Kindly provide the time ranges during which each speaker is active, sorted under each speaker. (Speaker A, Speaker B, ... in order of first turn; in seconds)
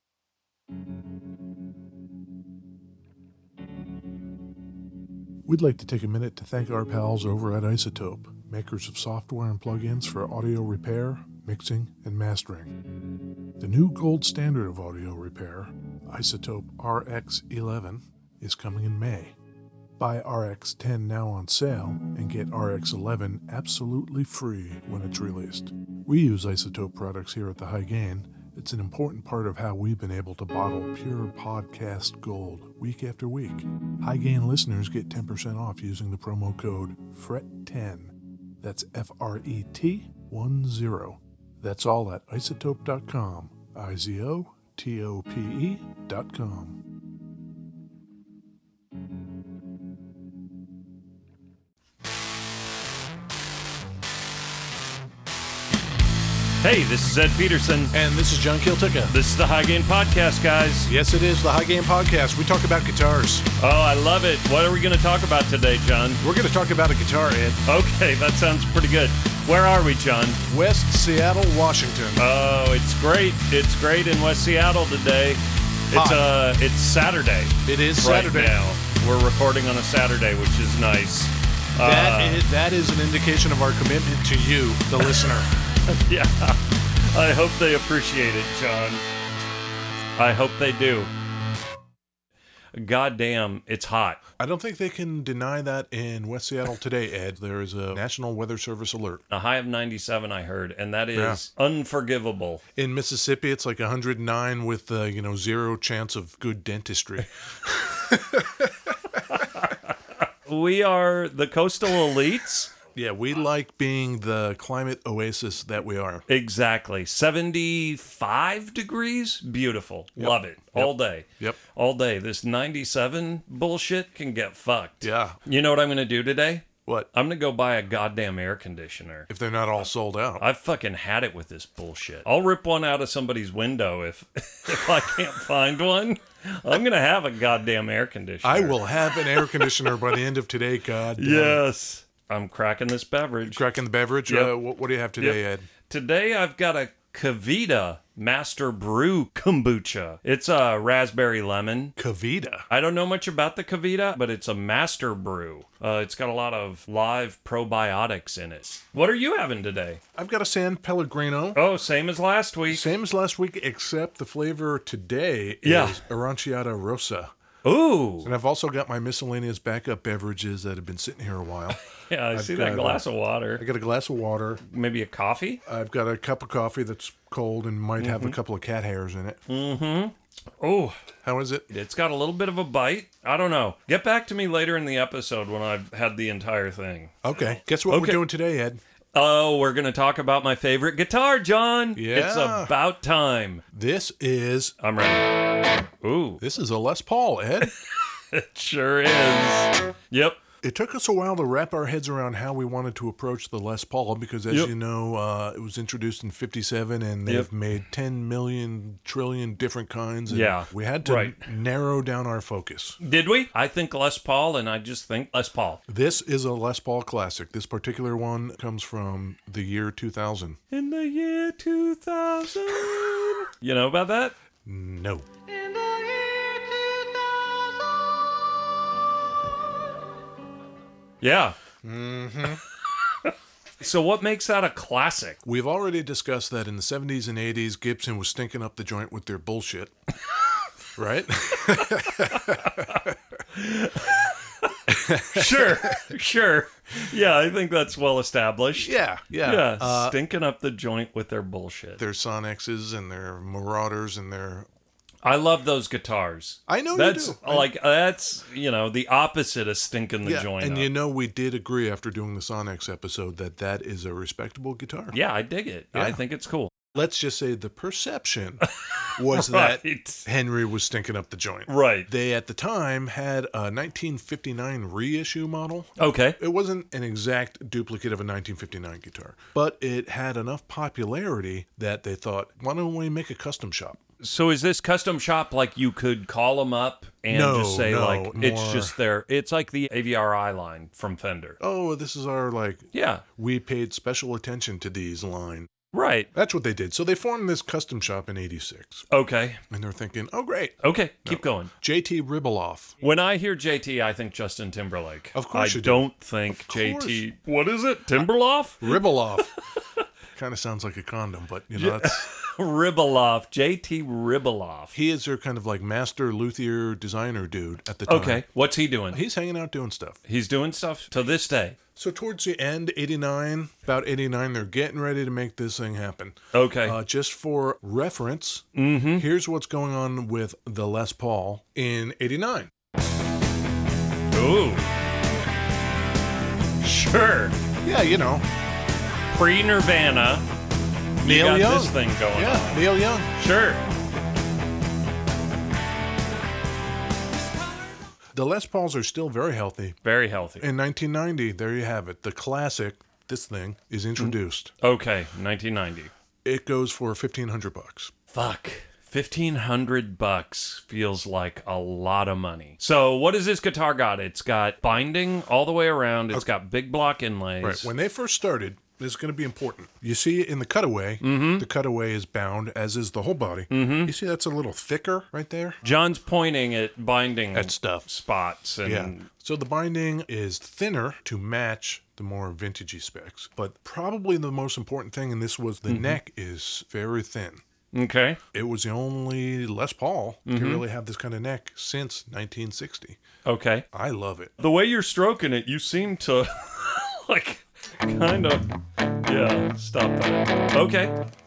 Speaker A: 5.5-12.7, 13.6-19.4, 20.0-46.8, 57.9-59.2, 60.9-63.5, 66.2-67.6, 70.5-72.2, 75.9-76.3, 77.7-78.6, 81.8-85.5, 94.4-99.2, 101.2-101.4, 102.8-108.7, 112.9-116.2, 120.2-121.6, 125.0-125.4, 129.3-130.4, 138.4-141.6, 143.4-145.7, 151.9-152.7, 160.2-161.6, 162.7-167.3, 168.2-171.8, 172.3-173.0, 173.5-174.6, 175.7-179.4, 181.2-181.7, 187.2-188.8, 191.9-192.7, 193.7-194.8, 196.4-197.7, 200.6-213.0, 215.9-220.6, 224.7-225.3, 231.8-232.6, 235.4-239.9, 241.0-243.2, 244.9-246.1, 248.8-250.2, 252.0-254.7, 256.7-257.7, 260.2-265.2, 265.9-266.2, 266.9-284.0, 287.3-289.0, 291.6-295.7, 296.3-299.1, 299.7-303.0, 305.3-306.1, 306.6-307.2, 308.8-309.5, 310.3-312.3, 314.9-318.4, 319.1-320.2, 322.0-332.7, 337.8-338.4, 341.2-343.3, 348.3-350.0, 350.6-354.7, 356.4-358.1, 367.6-375.8, 377.5-378.1, 378.8-387.6, 388.5-393.2, 393.9-394.5
Speaker B: 56.6-57.9, 59.1-60.9, 63.6-66.2, 67.7-70.4, 72.2-75.4, 75.9-82.4, 85.9-89.0, 90.2-91.1, 92.7-94.2, 99.3-102.6, 109.3-112.7, 116.3-129.3, 130.4-140.2, 141.2-143.6, 144.3-144.6, 145.2-151.9, 152.7-160.0, 161.5-162.9, 165.6-166.0, 167.6-168.3, 171.9-173.7, 174.7-175.6, 178.0-178.4, 179.5-181.0, 181.7-187.2, 187.9-188.2, 189.1-193.6, 194.8-196.4, 197.6-200.4, 210.3-211.4, 213.0-215.8, 220.7-224.3, 225.5-226.9, 231.2-231.6, 233.2-235.4, 242.2-243.0, 243.5-252.0, 255.2-260.9, 265.1-266.7, 268.6-270.2, 271.7-272.1, 276.0-276.4, 284.2-291.6, 292.9-293.2, 295.9-296.3, 299.1-299.6, 300.8-301.7, 303.0-310.0, 311.7-315.0, 318.1-319.2, 320.2-321.8, 326.5-327.0, 328.8-329.3, 334.3-334.9, 336.8-337.6, 339.3-340.5, 341.2-343.8, 350.0-350.6, 354.2-356.1, 358.3-367.9, 371.2-371.6, 373.7-374.1, 375.8-379.3, 385.9-386.2, 387.9-388.4, 390.5-390.9, 393.4-393.9, 394.6-401.2